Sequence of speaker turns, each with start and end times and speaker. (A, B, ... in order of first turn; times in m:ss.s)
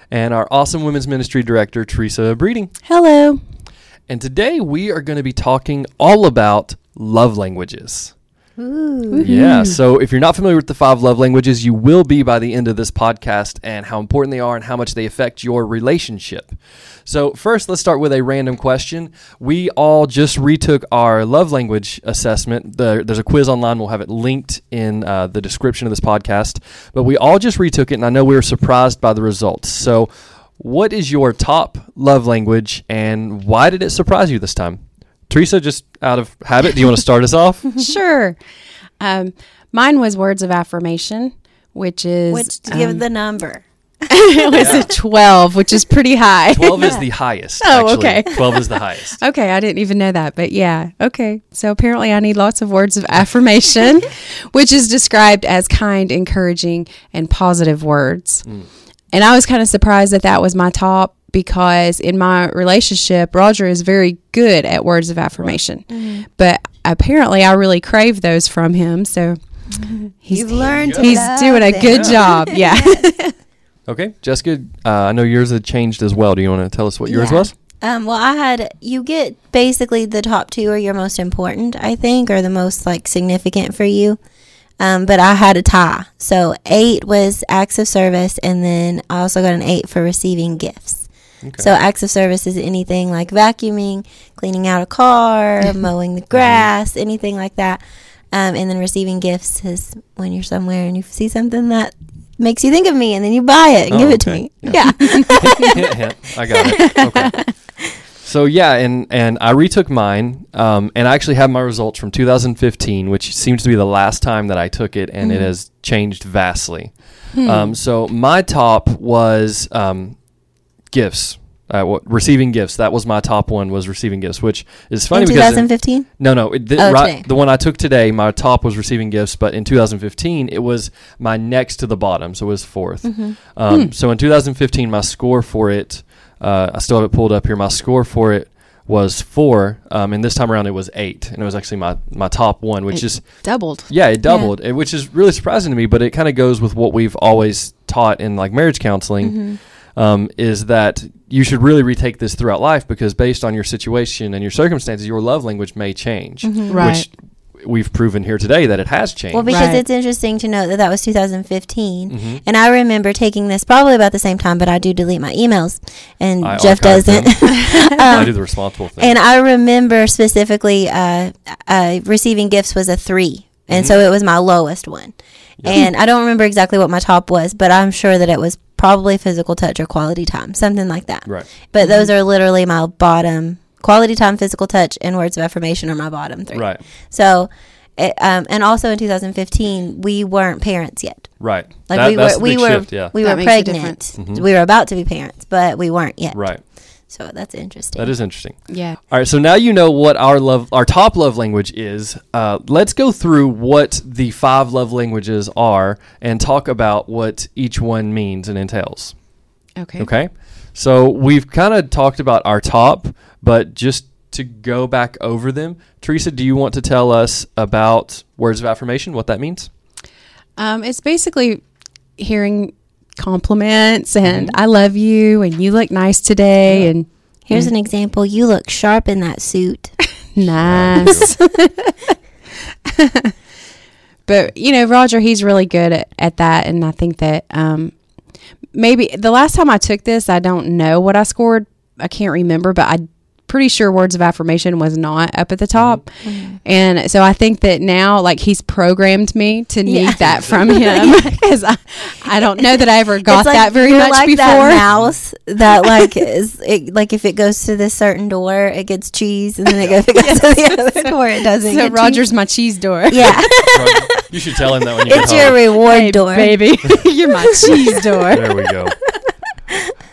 0:00.1-0:02.7 A
0:02.8-0:03.4 B
0:04.1-0:08.1 A
0:08.6-0:09.3 C
0:09.1-0:09.8 B
0:09.2-0:37.7 A
0:37.8-0:38.4 B
0:39.0-0:43.0 B
0:42.3-0:43.6 C
0:44.1-0:58.5 B
0:44.5-0:44.8 C
0:44.5-0:44.9 A
0:46.5-0:49.2 A
0:59.1-1:13.4 B
1:05.9-1:06.2 C
1:10.3-1:13.1 C
1:10.8-1:11.3 A
1:11.9-1:12.2 A
1:13.9-1:17.5 A
1:17.0-1:24.2 C
1:24.8-1:37.8 C
1:31.4-1:31.7 A
1:36.3-1:36.7 A
1:38.3-1:45.8 C
1:43.9-2:00.3 A
1:44.7-1:45.7 B
1:46.8-1:47.5 B
1:55.2-1:55.5 C
1:57.3-1:57.8 B
2:00.9-2:39.5 A
2:05.1-2:07.3 C
2:13.0-2:13.4 C
2:13.7-2:13.9 B
2:22.9-2:23.9 B
2:24.2-2:24.5 C
2:29.2-2:29.6 C
2:36.4-2:36.9 C
2:36.7-2:37.0 B
2:39.3-3:18.1 C
2:39.4-2:39.8 B
2:42.1-2:42.4 A
2:46.4-2:47.6 A
2:47.6-2:48.3 B
2:48.1-2:49.2 A
2:53.7-2:54.0 A
2:55.6-2:55.8 A
3:01.8-3:02.1 B
3:06.5-3:06.8 A
3:11.4-3:13.1 A
3:13.2-3:14.1 B
3:14.2-3:14.4 A
3:16.3-3:16.6 A
3:18.0-3:29.2 A
3:18.7-3:19.0 B
3:29.8-3:30.1 B
3:30.0-3:39.7 A
3:40.6-3:41.6 B
3:42.2-3:47.7 B
3:44.2-3:44.6 A
3:46.7-3:46.9 A
3:47.5-3:50.0 C
3:50.3-3:52.2 B
3:50.6-3:51.3 A
3:52.9-3:53.3 B
3:54.2-3:58.0 B
3:58.7-4:14.8 B
4:05.7-4:06.0 A
4:06.2-4:06.6 C
4:09.8-4:11.2 C
4:10.2-4:11.0 A
4:13.2-4:22.2 C
4:14.8-4:15.1 A
4:20.1-4:24.3 B
4:23.1-4:24.0 C
4:23.1-4:25.6 A
4:25.0-4:26.6 C
4:25.8-4:29.1 B
4:27.6-4:28.9 A